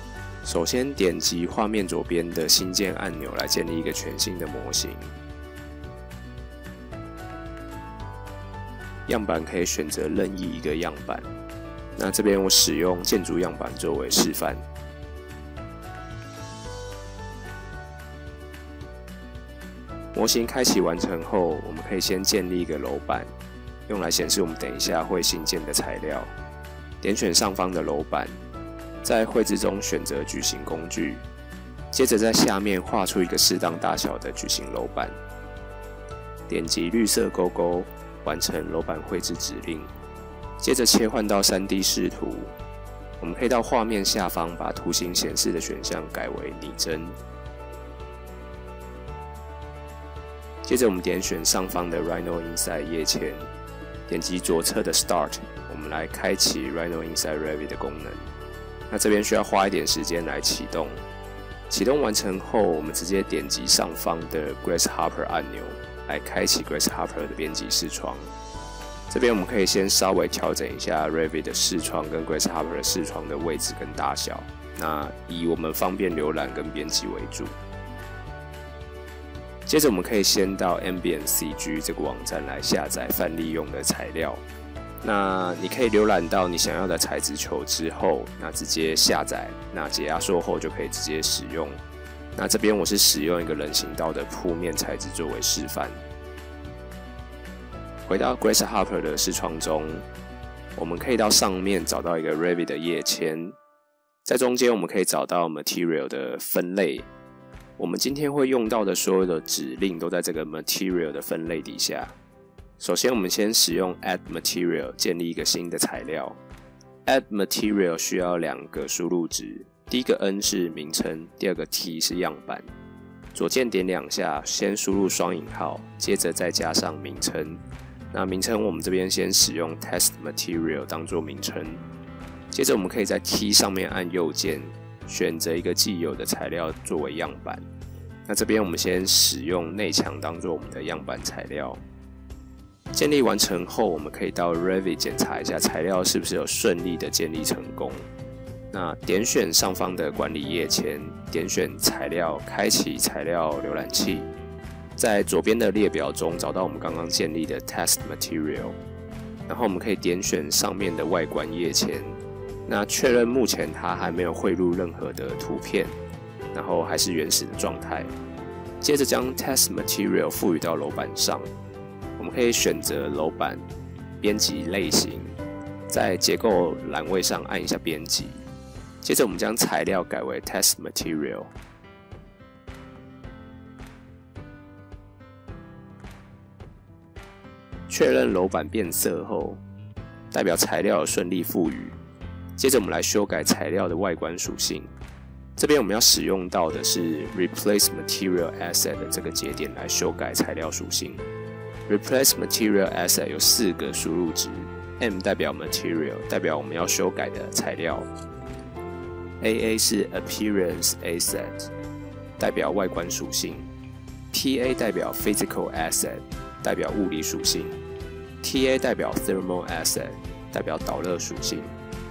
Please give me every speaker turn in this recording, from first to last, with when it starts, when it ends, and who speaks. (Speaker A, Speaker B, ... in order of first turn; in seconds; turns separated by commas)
Speaker A: 0.4-5.1, Speaker A: 9.1-11.3, Speaker A: 12.0-14.6, Speaker A: 20.1-23.3, Speaker A: 23.9-26.3, Speaker A: 27.0-28.4, Speaker A: 29.0-31.2, Speaker A: 31.9-35.2, Speaker A: 36.5-39.9, Speaker A: 40.6-42.5, Speaker A: 43.2-47.2, Speaker A: 50.6-53.5, Speaker A: 54.1-58.3, Speaker A: 58.9-61.0, Speaker A: 61.7-68.3, Speaker A: 69.1-77.6, Speaker A: 79.7-84.4, Speaker A: 85.0-91.8, Speaker A: 92.4-96.0, Speaker A: 98.1-100.1, Speaker A: 100.8-103.6, Speaker A: 104.2-107.1, Speaker A: 107.8-112.2, Speaker A: 112.8-116.4, Speaker A: 117.0-122.7, Speaker A: 123.3-131.8, Speaker A: 132.5-137.7, Speaker A: 138.3-141.8, Speaker A: 142.9-148.1, Speaker A: 148.7-154.3, Speaker A: 155.0-158.8, Speaker A: 159.5-165.9, Speaker A: 166.5-168.1, Speaker A: 168.8-171.5, Speaker A: 172.2-173.7, Speaker A: 174.2-175.4, Speaker A: 175.9-178.4, Speaker A: 179.0-181.5, Speaker A: 187.9-189.6, Speaker A: 190.3-192.0, Speaker A: 192.6-194.9, Speaker A: 195.6-201.2, Speaker A: 201.9-208.1, Speaker A: 209.4-211.7, Speaker A: 212.4-213.7, Speaker A: 214.3-217.8, Speaker A: 218.4-221.7